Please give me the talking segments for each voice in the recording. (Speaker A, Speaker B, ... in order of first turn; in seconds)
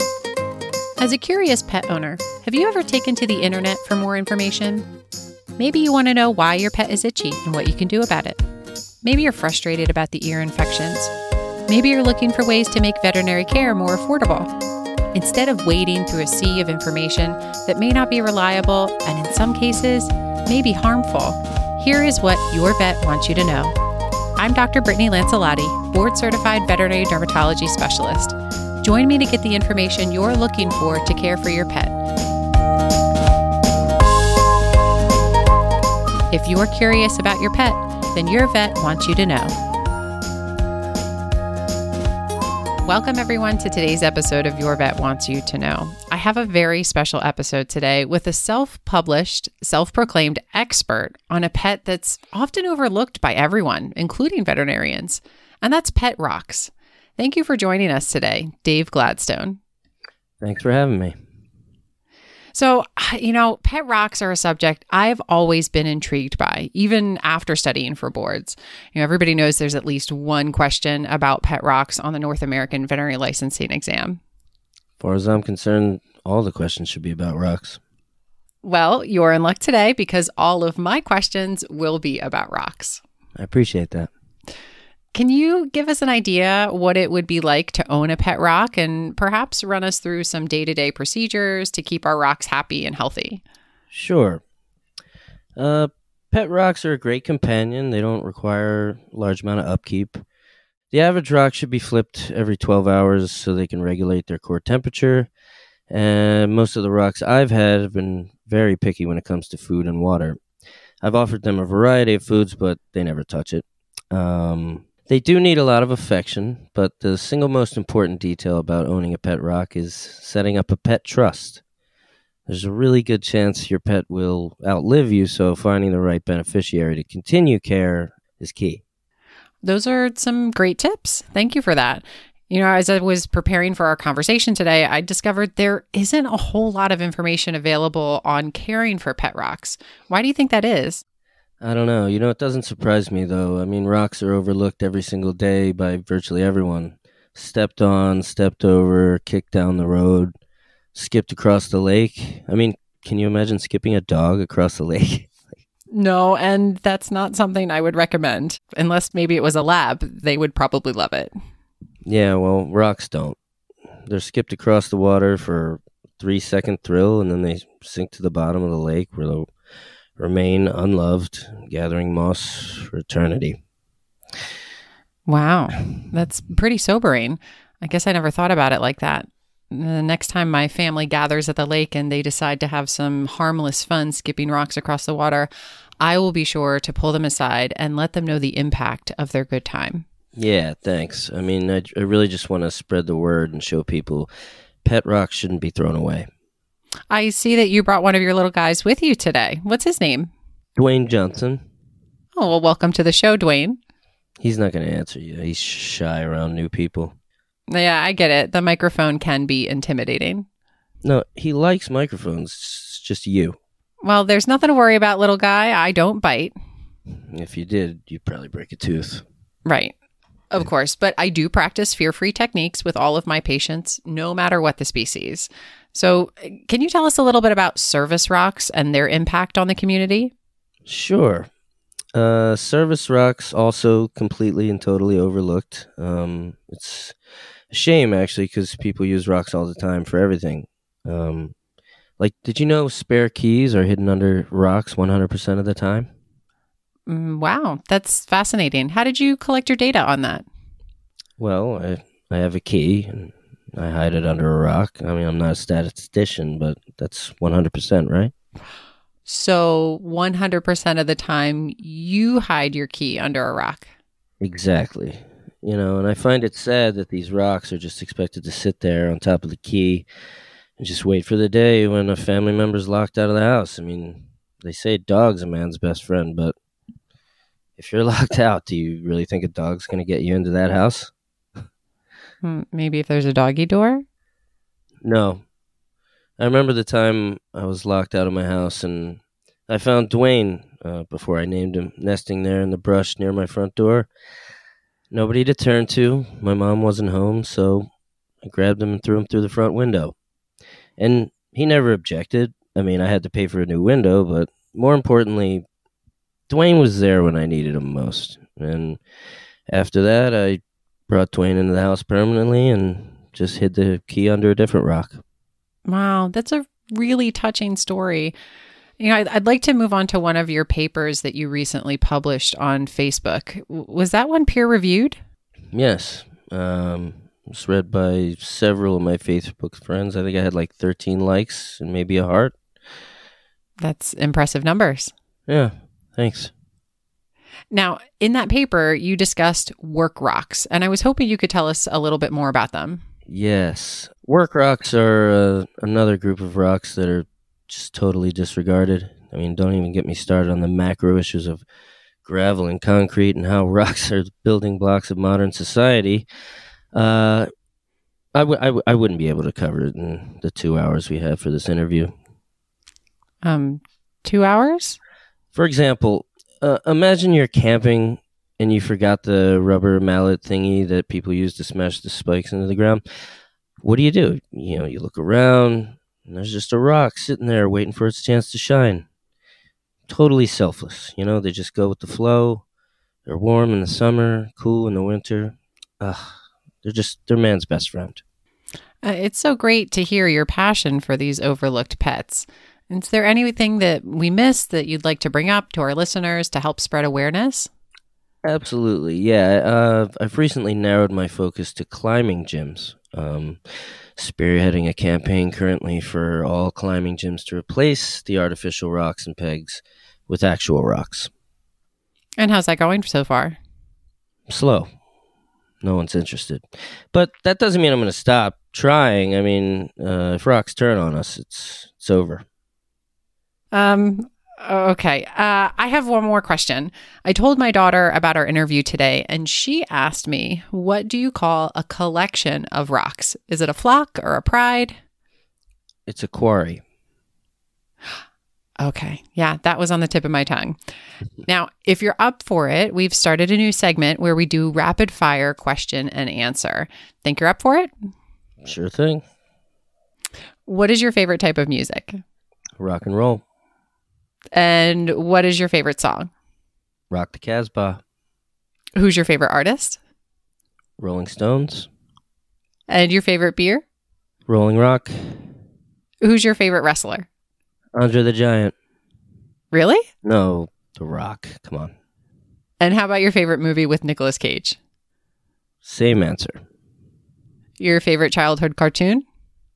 Speaker A: 1.0-4.9, 5.6-8.4, 9.0-11.1, 11.7-14.5, 15.1-23.7, 24.4-32.0, 36.3-39.5, 42.8-59.6, 62.5-74.2, 78.6-83.0, 85.1-93.4, 129.6-141.0, 155.9-161.3, 175.3-185.5, 186.0-190.0, 197.1-200.3, 202.3-203.8, 207.7-210.4, 214.0-216.5, 219.7-219.9, 220.5-230.3, 247.1-250.4, 259.2-263.9, 282.4-284.0, 315.9-318.3, 319.0-325.2, 333.8-335.1, 337.7-343.0, 363.4-365.0, 389.0-397.7, 412.4-413.6, 423.7-435.0, 438.8-440.8, 441.4-447.9, 450.6-452.2, 454.5-456.3, 458.9-460.0, 462.9-463.8, 466.2-467.3, 469.7-470.1, 472.8-474.8, 477.8-479.2
Speaker B: 60.4-61.2, 75.0-77.8, 83.4-84.1, 93.9-94.4, 95.6-100.2, 100.9-105.3, 105.9-110.4, 111.0-121.6, 122.5-128.8, 141.6-150.3, 150.9-155.3, 162.0-163.4, 164.1-169.5, 170.2-173.6, 190.3-194.3, 194.8-196.3, 200.8-201.6, 204.4-207.1, 211.0-213.6, 217.3-219.2, 230.8-231.5, 232.1-237.2, 237.7-241.5, 242.2-246.1, 251.4-258.3, 264.4-270.0, 270.8-276.5, 277.8-281.1, 285.0-285.4, 286.4-294.1, 295.1-297.9, 298.4-300.1, 301.0-305.6, 306.5-309.0, 309.7-315.2, 325.7-332.5, 335.5-336.5, 343.3-351.6, 352.2-356.2, 356.9-357.5, 358.3-362.1, 365.5-373.0, 373.8-379.1, 380.1-382.6, 383.2-388.2, 398.4-403.6, 404.1-411.3, 414.5-414.9, 415.8-422.4, 436.1-436.8, 448.6-449.2, 452.8-453.4, 457.1-458.0, 461.0-461.9, 464.5-465.3, 467.9-468.7, 470.2-471.9, 475.8-476.6